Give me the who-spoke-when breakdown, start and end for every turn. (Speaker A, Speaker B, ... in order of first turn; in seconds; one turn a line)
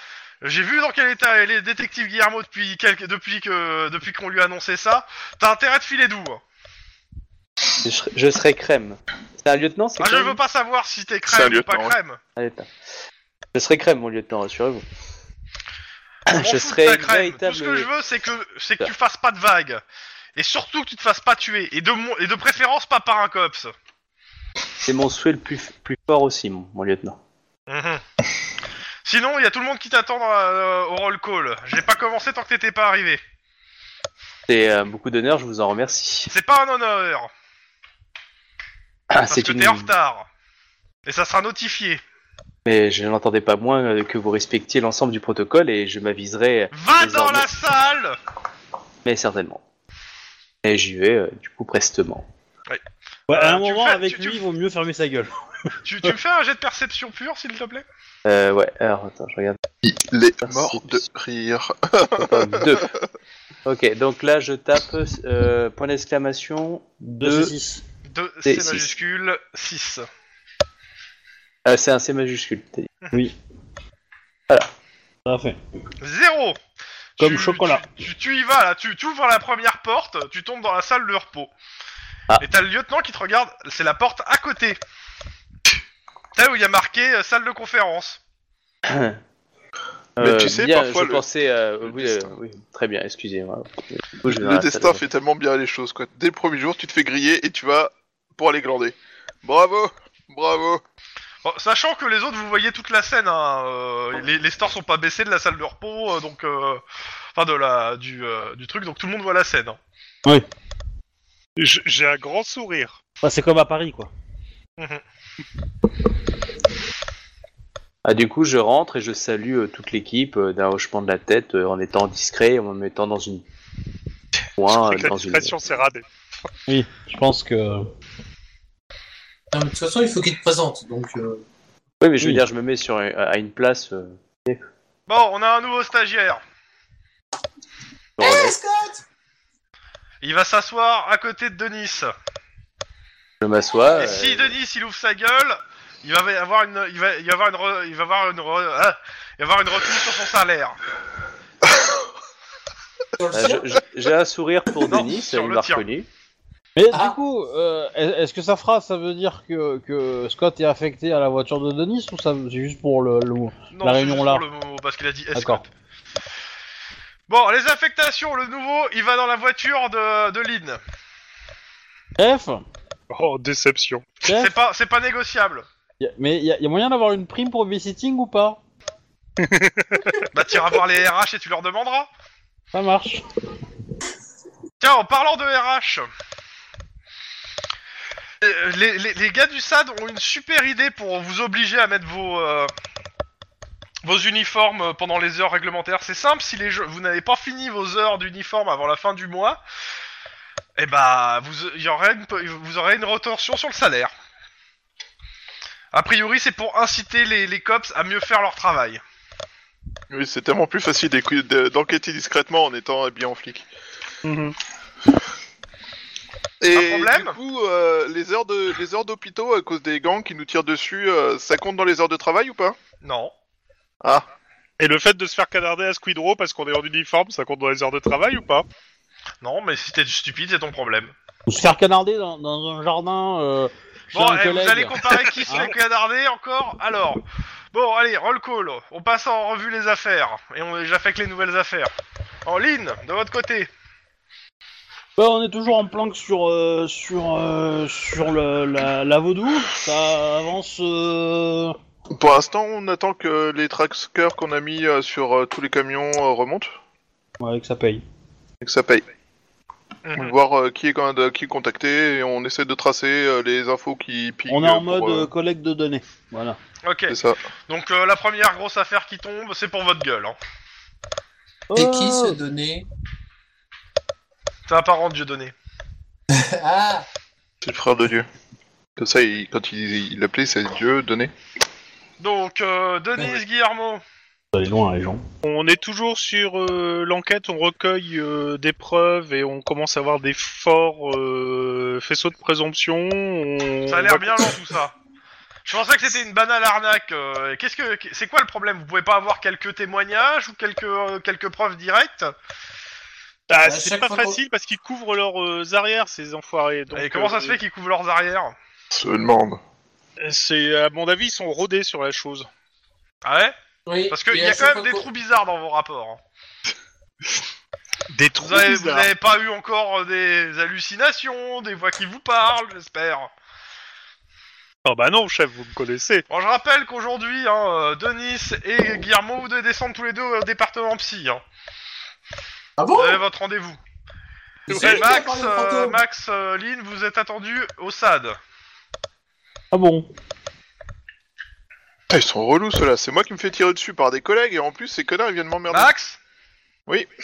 Speaker A: 0.4-6.4
Speaker B: 7.8-10.4
Speaker A: 10.0-12.2
Speaker C: 11.3-11.9
Speaker B: 12.4-12.7
Speaker B: 13.5-14.8
Speaker B: 16.3-17.9
Speaker A: 16.3-19.8
Speaker A: 20.4-23.7
Speaker B: 24.8-27.2
Speaker A: 27.7-28.0
Speaker A: 29.0-33.2
Speaker B: 34.5-36.3
Speaker A: 36.3-37.3
Speaker B: 39.1-39.9
Speaker A: 39.2-40.3
Speaker A: 41.0-42.0
Speaker B: 42.6-47.5
Speaker A: 46.7-48.2
Speaker B: 49.0-49.6
Speaker B: 50.6-52.2
Speaker A: 52.7-54.4
Speaker D: 53.3-55.3
Speaker A: 55.8-57.8
Speaker B: 58.2-59.6
Speaker C: 59.8-63.0
Speaker B: 60.4-61.0
Speaker B: 62.2-62.9
Speaker B: 63.6-67.5
Speaker D: 67.0-67.8
Speaker A: 68.1-70.0
Speaker B: 68.4-68.9
Speaker B: 71.7-72.9
Speaker D: 75.2-75.6
Speaker A: 76.0-76.6
Speaker A: 77.2-81.5
Speaker D: 77.2-77.8
Speaker A: 82.4-84.8
Speaker A: 86.3-88.2
Speaker B: 88.9-89.2
Speaker B: 90.2-95.0
Speaker C: 90.2-91.2
Speaker C: 91.8-92.4
Speaker C: 94.2-100.8
Speaker A: 101.4-106.8
Speaker A: 107.3-109.8
Speaker E: 111.6-113.0
Speaker D: 113.2-114.1
Speaker B: 118.0-123.4
Speaker B: 124.6-125.5
Speaker E: 124.7-126.0
Speaker D: 126.7-127.9
Speaker F: 129.5-131.4
Speaker B: 132.0-134.6
Speaker A: 135.1-136.4
Speaker B: 138.2-138.6
Speaker F: 138.2-139.0
Speaker A: 140.2-142.1
Speaker B: 143.4-144.5
Speaker A: 143.9-150.8
Speaker F: 153.2-153.7
Speaker B: 153.3-156.1
Speaker A: 154.9-155.8
Speaker D: 156.8-164.4
Speaker F: 156.9-157.2
Speaker A: 163.7-165.7
Speaker D: 165.3-165.6
Speaker A: 167.3-170.8
Speaker D: 172.2-172.6
Speaker E: 173.1-174.2
Speaker D: 174.2-174.5
Speaker A: 174.3-175.6
Speaker D: 176.0-178.6
Speaker E: 179.4-180.3
Speaker A: 180.3-182.1
Speaker D: 182.7-183.2
Speaker A: 184.8-186.0
Speaker A: 188.4-192.7
Speaker A: 194.0-199.6
Speaker A: 200.8-204.1
Speaker A: 205.9-209.0
Speaker C: 210.1-213.7
Speaker E: 214.2-214.5
Speaker C: 216.6-222.8
Speaker A: 216.7-217.4
Speaker A: 223.0-223.3
Speaker E: 224.8-228.7
Speaker A: 229.4-231.1
Speaker D: 231.5-235.7
Speaker A: 234.1-241.9
Speaker E: 235.4-235.7
Speaker A: 242.4-243.7
Speaker D: 245.2-251.8
Speaker C: 252.1-256.7
Speaker D: 257.4-258.0
Speaker C: 258.6-259.0
Speaker A: 260.0-260.3
Speaker C: 260.1-265.3
Speaker D: 264.5-266.6
Speaker A: 266.8-267.2
Speaker C: 267.1-267.4
Speaker A: 267.7-270.4
Speaker D: 271.7-272.4
Speaker F: 271.7-272.9
Speaker A: 274.7-275.5
Speaker F: 276.3-277.1
Speaker C: 277.6-278.2
Speaker C: 279.0-281.3
Speaker A: 282.2-284.0
Speaker D: 284.5-285.2
Speaker E: 285.4-294.5
Speaker A: 293.9-294.9
Speaker A: 295.6-302.3
Speaker E: 303.5-307.6
Speaker F: 303.6-304.4
Speaker A: 306.9-308.5
Speaker C: 308.9-309.6
Speaker E: 310.2-312.5
Speaker A: 313.2-313.5
Speaker F: 313.9-315.0
Speaker A: 314.1-316.2
Speaker E: 318.1-319.1
Speaker A: 318.4-323.3
Speaker E: 324.8-326.2
Speaker A: 326.3-331.4
Speaker F: 332.8-333.2
Speaker A: 332.9-333.8
Speaker F: 334.7-336.0
Speaker A: 334.7-338.4
Speaker E: 334.7-335.0
Speaker D: 339.7-340.1
Speaker C: 342.1-345.9
Speaker A: 345.7-346.2